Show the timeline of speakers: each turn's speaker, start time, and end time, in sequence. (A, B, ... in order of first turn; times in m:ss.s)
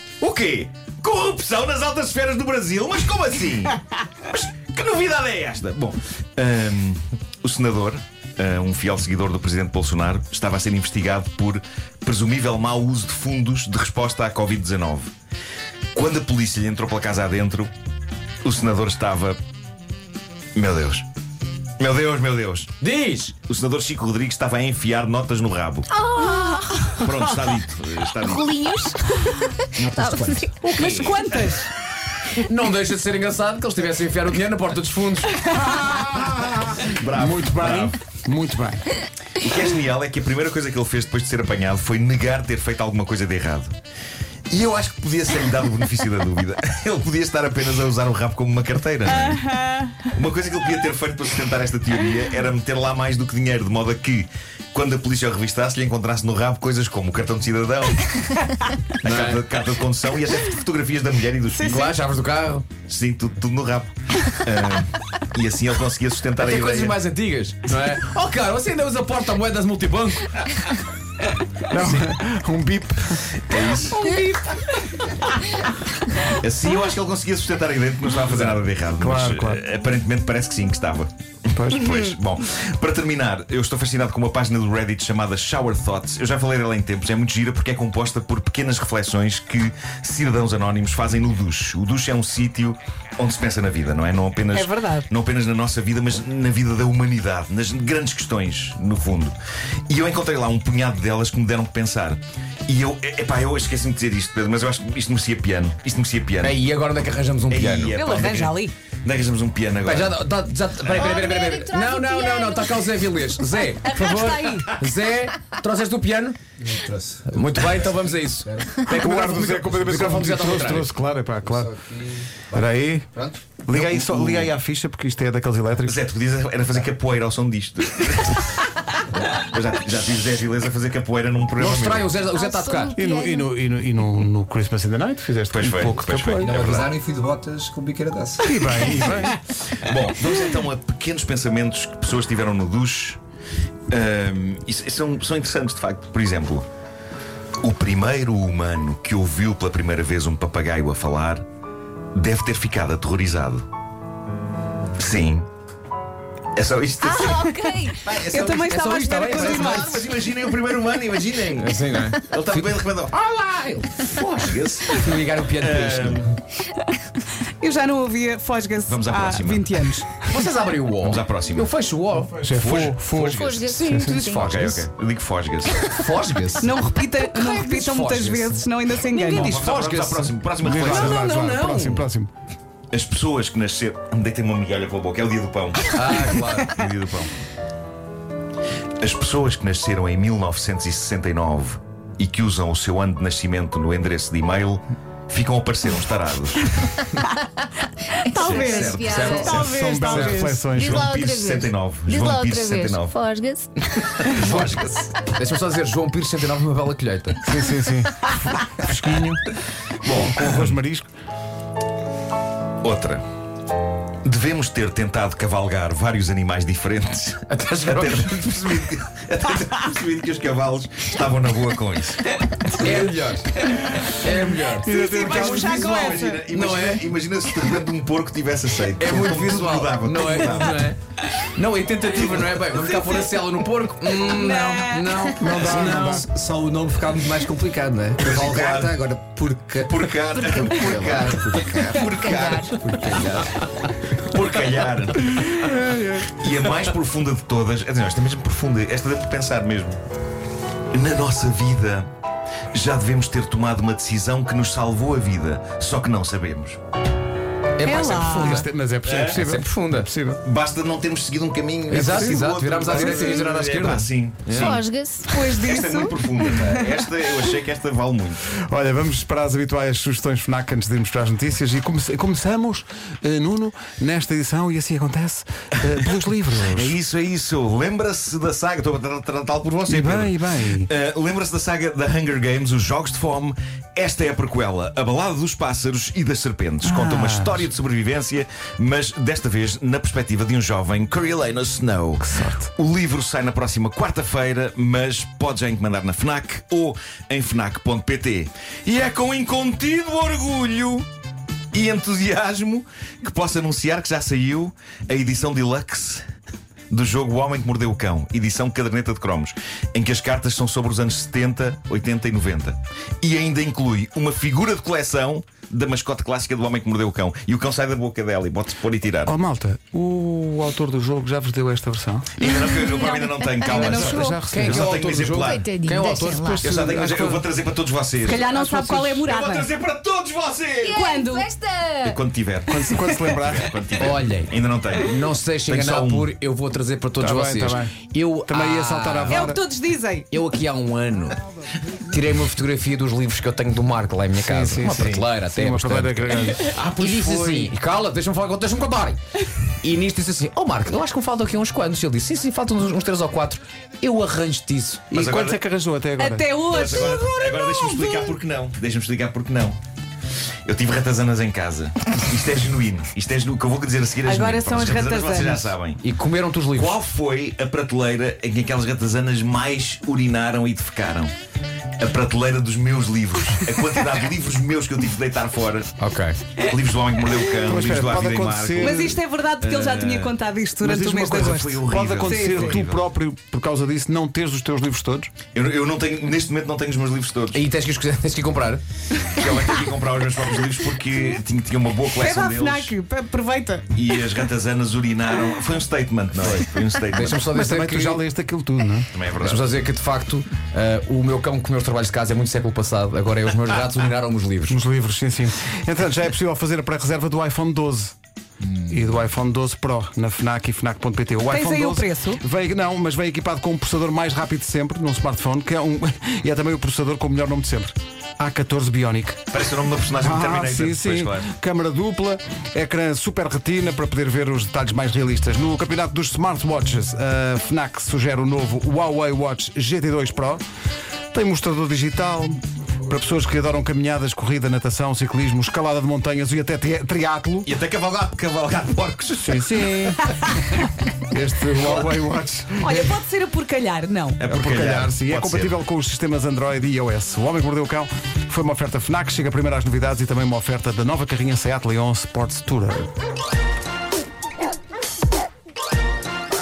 0:00.2-0:15.1 A
0:15.9-0:17.7 A
0:18.4-0:19.4 A
0:20.6-0:21.1 A
0:21.8-0:22.7 A
0:22.8-0:23.3 B
0:23.5-0:25.9 A
0:25.9-0:27.2 C
0:26.2-0:27.3 D
0:27.0-0:28.5 A
0:28.2-0:30.8 C
0:30.6-0:31.7 D
0:30.7-0:31.5 A
0:32.3-0:35.5 B
0:35.6-0:37.9 A
0:37.1-0:38.9 E
0:39.4-0:43.7 A
0:44.5-0:49.5 A
0:49.1-0:50.1 D
0:50.0-1:02.0 A
0:59.0-0:59.4 B
1:01.5-1:01.9 D
1:01.7-1:02.6 B
1:02.9-1:07.0 A
1:06.4-1:10.4 B
1:11.7-1:13.4 E
1:11.7-1:12.1 A
1:13.4-1:14.1 A
1:14.0-1:15.1 D
1:16.3-1:39.4 A
1:18.3-1:18.6 B
1:19.0-1:19.6 E
1:21.5-1:22.0 E
1:34.5-1:35.1 D
1:39.9-1:46.6 A
1:46.4-1:48.3 B
1:47.5-1:50.2 A
1:47.9-1:48.7 D
1:49.8-1:56.4 B
1:51.0-1:52.8 C
1:53.6-1:54.8 D
1:56.6-1:57.4 F
1:57.2-2:00.9 B
1:58.4-1:58.7 F
1:58.9-2:01.7 E
2:01.9-2:02.6 F
2:02.5-2:06.0 E
2:03.7-2:04.5 A
2:05.8-2:12.1 A
2:11.6-2:13.0 B
2:12.3-2:13.5 C
2:12.9-2:16.8 E
2:15.5-2:17.0 A
2:16.5-2:18.5 F
2:16.5-2:18.1 B
2:18.4-2:19.4 E
2:18.8-2:23.2 A
2:23.9-2:26.6 A
2:27.6-2:31.4 A
2:32.1-2:33.6 A
2:35.0-2:35.5 A
2:36.6-2:38.5 A
2:37.0-2:38.0 C
2:37.6-2:40.0 D
2:38.1-2:40.0 B
2:39.2-2:43.2 A
2:41.6-2:46.3 B
2:44.1-2:45.1 A
2:45.6-2:46.2 A
2:47.4-2:50.3 D
2:48.8-2:49.9 A
2:50.2-2:52.5 B
2:51.0-2:51.7 A
2:52.4-2:54.3 E
2:52.5-2:53.7 A
2:53.2-2:54.5 C
2:53.7-2:54.9 B
2:54.3-2:55.8 A
2:55.7-3:02.1 B
2:56.6-2:59.6 D
2:59.3-3:01.2 A
3:00.6-3:02.3 E
3:02.9-3:07.3 A
3:05.9-3:06.7 B
3:09.0-3:16.7 A
3:18.2-3:20.7 D
3:18.3-3:19.9 C
3:18.4-3:23.2 A
3:19.2-3:21.1 E
3:20.6-3:23.8 C
3:24.3-3:25.1 A
3:24.3-3:27.4 B
3:27.4-3:29.4 E
3:30.0-3:30.8 A
3:30.2-3:31.1 E
3:32.8-3:33.2 A
3:34.2-3:43.1 A
3:37.5-3:38.5 B
3:42.8-3:45.0 B
3:44.7-3:46.0 E
3:44.9-3:46.4 D
3:45.1-3:50.9 A
3:45.7-3:47.1 B
3:49.0-3:55.9 B
3:52.2-3:53.2 A
3:54.2-3:55.4 D
3:55.4-3:56.3 E
3:55.6-4:00.0 F
3:57.0-3:59.9 B
3:58.2-3:59.1 A
3:59.8-4:03.2 A
4:00.3-4:01.0 C
4:00.8-4:02.0 F
4:01.0-4:01.7 B
4:02.0-4:02.8 C
4:02.8-4:03.5 B
4:04.2-4:05.5 A
4:05.5-4:06.3 E
4:06.2-4:10.0 A
4:10.9-4:12.1 A
4:12.7-4:16.8 A
4:17.8-4:20.1 B
4:17.8-4:18.6 D
4:18.1-4:20.4 E
4:19.0-4:19.4 A
4:20.4-4:28.4 A
4:21.9-4:24.8 B
4:21.9-4:23.3 E
4:24.5-4:25.4 C
4:25.2-4:27.0 D
4:28.6-4:37.0 E
4:36.6-5:01.1 A
4:39.9-4:40.9 E
4:46.8-4:47.6 E
4:52.2-4:52.7 E
5:01.7-5:06.2 A
5:06.9-5:19.3 A
5:19.2-5:22.3 E
5:22.4-5:25.7 A
5:22.9-5:24.5 D
5:23.6-5:25.2 E
5:24.5-5:26.9 B
5:25.3-5:26.7 C
5:26.4-5:27.4 E
5:26.6-5:31.0 A
5:28.2-5:29.7 D
5:30.8-5:32.2 C
5:30.9-5:31.5 D
5:32.0-5:36.3 A
5:32.7-5:33.7 E
5:34.0-5:39.6 B
5:37.2-5:37.9 E
5:38.5-5:39.6 E
5:39.3-5:40.3 D
5:40.3-5:41.4 B
5:42.0-5:49.2 B
5:44.4-5:46.7 E
5:44.9-5:45.2 A
5:46.7-5:47.7 A
5:49.8-5:55.2 B
5:55.1-5:55.6 A
5:55.1-5:56.5 E
5:56.2-5:58.4 D
5:56.7-5:59.8 A
6:00.6-6:06.0 A
6:04.2-6:05.7 D
6:06.0-6:07.0 B
6:06.7-6:11.3 A
6:12.0-6:15.9 A
6:16.0-6:16.4 B
6:16.6-6:19.0 A
6:17.6-6:19.2 E
6:18.8-6:22.8 D
6:19.6-6:20.4 A
6:20.8-6:25.3 E
6:21.1-6:23.1 A
6:25.5-6:27.6 A
6:27.5-6:28.8 B
6:29.3-6:33.0 A
6:32.1-6:33.9 D
6:33.9-6:37.5 A
6:36.4-6:38.2 B
6:37.2-6:39.1 E
6:39.1-6:39.7 A
6:39.4-6:44.8 B
6:44.7-6:48.2 E
6:48.9-6:59.4 E
6:51.5-6:52.4 D
6:59.5-7:01.5 A
7:00.2-7:10.6 E
7:11.3-7:17.7 E
7:17.6-7:19.8 A
7:19.4-7:20.3 E
7:21.2-7:23.1 E
7:21.8-7:22.1 A
7:22.8-7:24.4 D
7:24.4-7:25.8 A
7:24.5-7:33.1 E